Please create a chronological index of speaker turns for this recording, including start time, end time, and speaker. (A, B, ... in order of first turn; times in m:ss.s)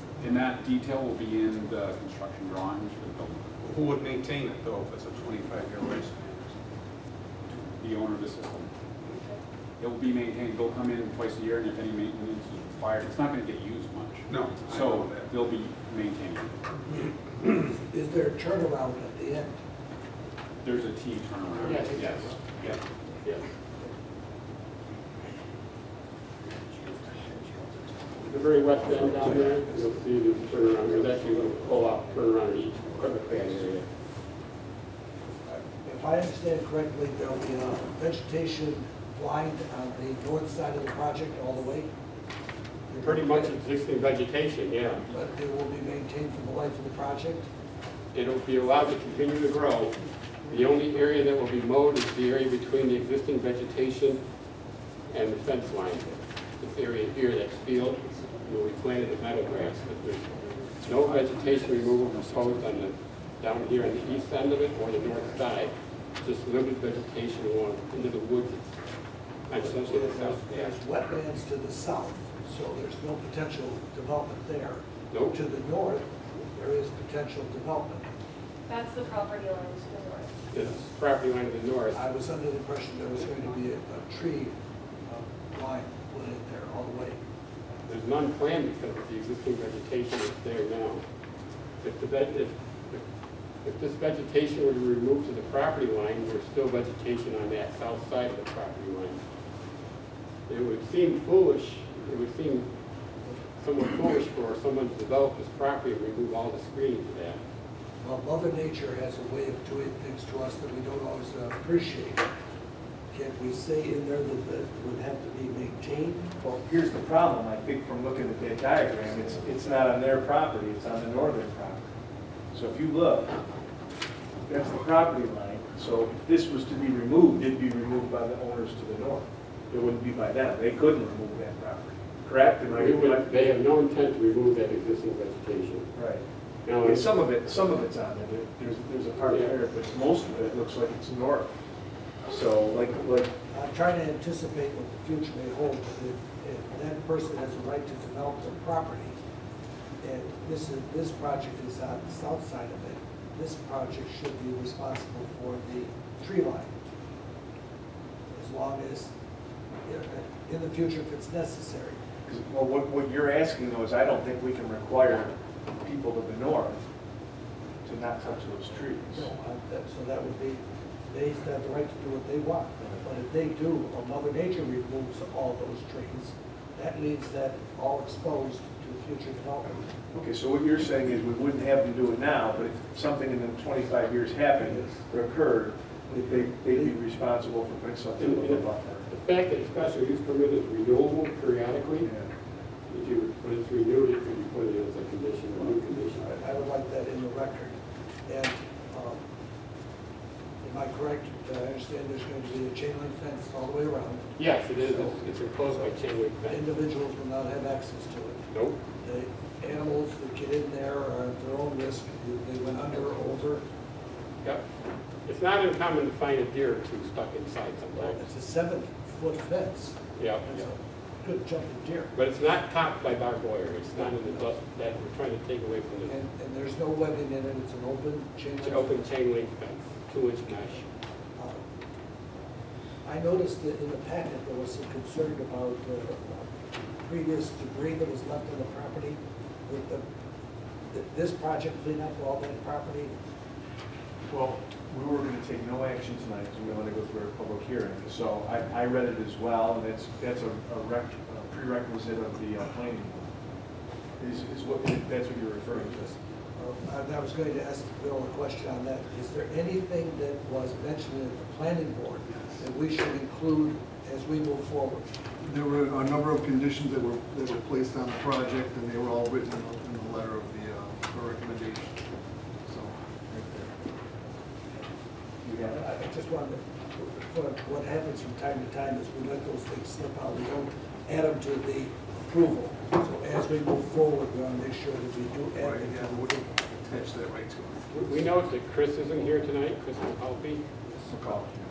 0:00.2-0:03.5 A
0:03.6-0:06.5 B
0:07.5-0:08.7 A
0:09.1-0:09.4 C
0:09.8-0:16.6 A
0:14.4-0:15.2 B
0:16.9-0:19.6 D
0:20.6-0:22.8 A
0:21.6-0:22.1 E
0:21.8-0:22.3 D
0:28.2-0:33.9 E
0:35.4-0:41.9 D
0:42.9-0:43.6 D
0:43.0-0:45.0 E
0:45.1-0:47.5 D
0:48.1-0:54.2 E
0:55.1-1:08.7 E
1:00.8-1:02.9 A
1:09.5-1:10.8 E
1:09.6-1:18.1 D
1:15.1-1:15.4 E
1:18.7-1:20.4 C
1:20.5-1:22.0 E
1:21.9-1:24.5 D
1:25.1-1:27.2 D
1:27.9-1:31.0 E
1:31.8-1:33.0 E
1:33.6-1:39.2 E
1:40.5-1:42.7 E
1:43.6-1:47.4 E
1:48.0-1:52.3 D
1:53.1-1:56.3 D
1:56.4-2:01.8 F
2:02.5-2:03.4 F
2:04.5-2:13.4 F
2:12.7-2:15.9 E
2:16.0-2:16.2 F
2:16.7-2:17.1 E
2:16.8-2:21.5 F
2:19.3-2:19.6 E
2:22.3-2:23.3 F
2:23.5-2:29.2 D
2:30.0-2:36.7 D
2:38.4-2:39.1 D
2:39.9-2:42.0 D
2:42.3-2:46.8 F
2:47.8-2:49.3 F
2:49.1-2:59.9 D
3:00.1-3:09.1 F
3:04.6-3:05.0 D
3:06.2-3:07.0 D
3:08.2-3:12.1 E
3:12.0-3:12.3 F
3:12.9-3:16.4 E
3:16.2-3:17.8 D
3:18.3-3:19.2 D
3:20.6-3:25.9 D
3:24.4-3:26.7 E
3:26.4-3:28.4 D
3:28.5-3:28.8 E
3:29.0-3:33.6 D
3:35.3-3:38.3 E
3:38.0-3:42.1 D
3:40.2-3:40.7 E
3:42.1-3:46.2 E
3:44.0-3:44.5 D
3:46.0-3:49.0 D
3:48.6-3:50.8 E
3:53.0-3:56.5 D
3:57.0-4:00.0 D
4:00.9-4:03.1 D
4:04.3-4:13.3 F
4:14.2-4:16.0 F
4:15.7-4:25.0 D
4:25.4-4:32.0 G
4:32.6-4:33.7 G
4:35.4-4:35.8 F
4:35.7-4:46.5 D
4:45.6-4:47.8 G
4:47.9-4:50.6 E
4:51.1-4:51.5 F